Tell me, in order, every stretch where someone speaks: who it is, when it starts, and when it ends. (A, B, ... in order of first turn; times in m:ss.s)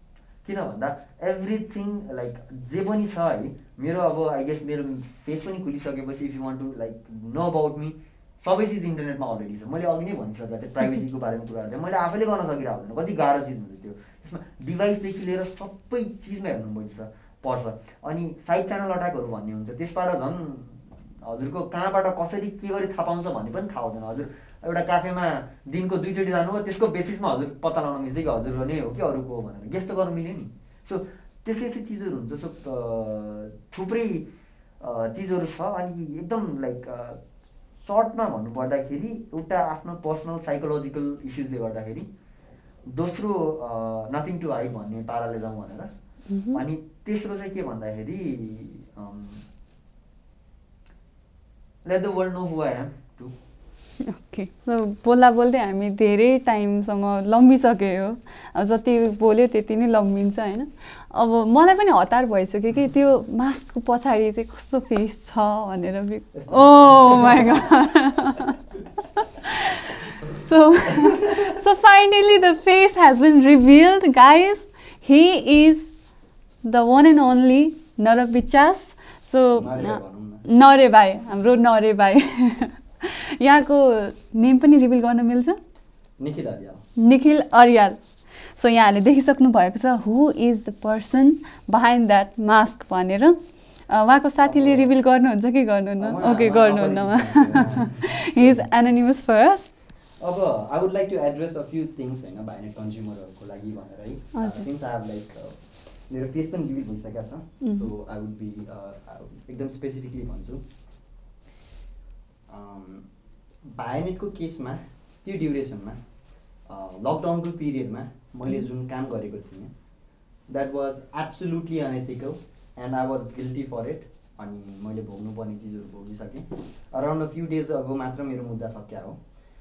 0:00.4-0:34.3 A
0:34.8-0:37.2 A
0:37.8-0:42.1 A
0:42.9-0:45.9 A
0:46.3-0:46.6 B
0:46.5-0:49.4 A
0:51.8-0:53.3 A
0:54.0-1:08.6 B
1:06.3-1:07.7 A
1:09.6-1:15.9 B
1:16.6-1:25.6 B
1:19.5-1:20.4 A
1:26.2-1:26.8 A
1:27.0-1:39.7 B
1:34.5-1:34.9 A
1:36.0-1:38.7 A
1:40.2-1:50.6 A
1:44.3-1:44.7 B
1:47.6-1:47.9 B
1:52.5-1:53.1 A
1:53.6-1:56.0 A
1:56.7-1:59.7 A
2:00.5-2:09.2 A